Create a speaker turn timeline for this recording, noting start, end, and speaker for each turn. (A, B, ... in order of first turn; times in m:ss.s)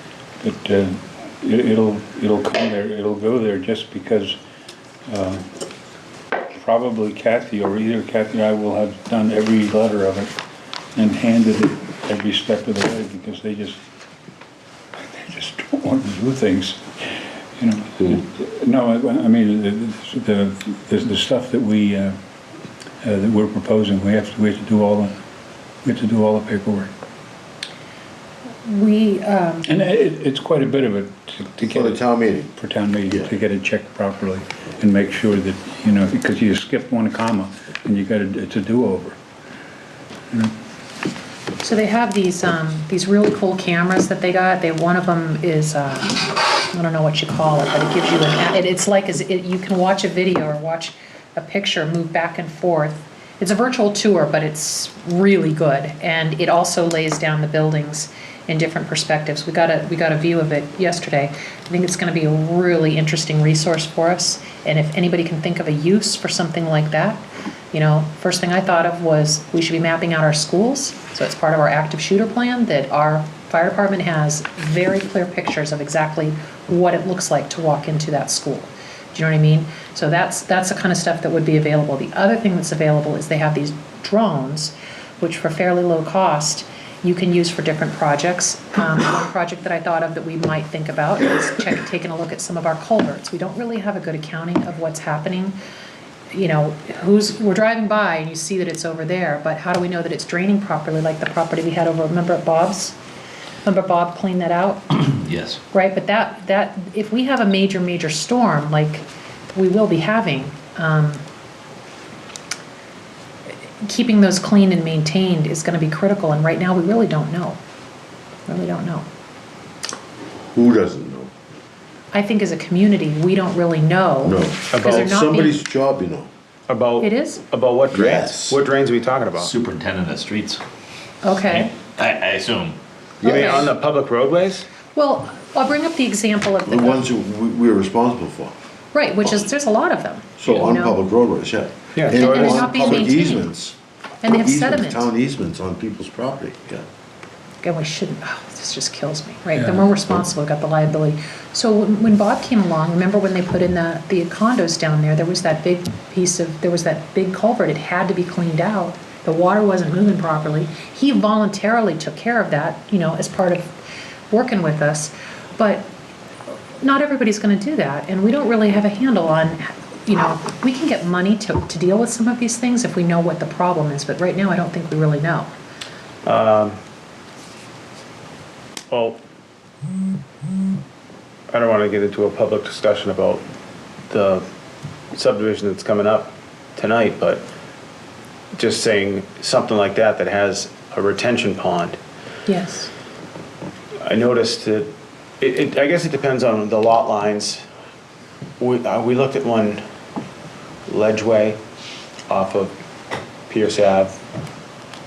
0:00.4-0:04.4 A
0:05.1-0:05.5 A
0:06.5-0:10.3 A
0:10.9-0:13.8 A
0:15.0-0:22.2 A
0:23.0-0:25.2 A
0:25.8-0:26.9 A
0:28.6-0:29.6 B
0:29.6-0:39.2 A
0:31.6-0:32.5 C
0:41.6-1:35.5 B
1:36.3-1:43.0 B
1:43.6-1:44.9 B
1:45.0-1:45.6 D
1:45.7-1:51.2 B
1:53.8-1:57.6 B
1:58.5-1:59.0 B
2:00.5-2:01.3 C
2:02.1-2:05.6 B
2:04.2-2:06.3 C
2:04.7-2:05.1 E
2:06.7-2:09.5 E
2:07.0-2:07.4 B
2:07.9-2:08.6 C
2:09.3-2:10.6 D
2:11.2-2:11.8 B
2:11.4-2:12.8 D
2:13.2-2:13.7 C
2:13.2-2:14.7 E
2:13.2-2:13.7 B
2:14.9-2:17.0 B
2:16.6-2:18.6 C
2:18.9-2:20.9 B
2:20.4-2:26.8 C
2:21.9-2:23.1 E
2:22.1-2:23.5 B
2:24.2-2:25.1 B
2:27.6-2:43.7 B
2:29.6-2:29.8 A
2:44.3-2:45.9 B
2:46.8-2:55.5 B
2:56.2-2:56.8 E
2:58.9-2:59.2 E
3:01.5-3:03.4 E
3:04.1-3:04.4 E
3:05.1-3:07.4 E
3:08.5-3:12.0 E
3:12.5-3:12.9 B
3:14.0-3:17.6 E
3:18.6-3:19.8 E
3:20.9-3:21.6 E
3:22.3-3:22.7 E
3:23.5-3:24.2 E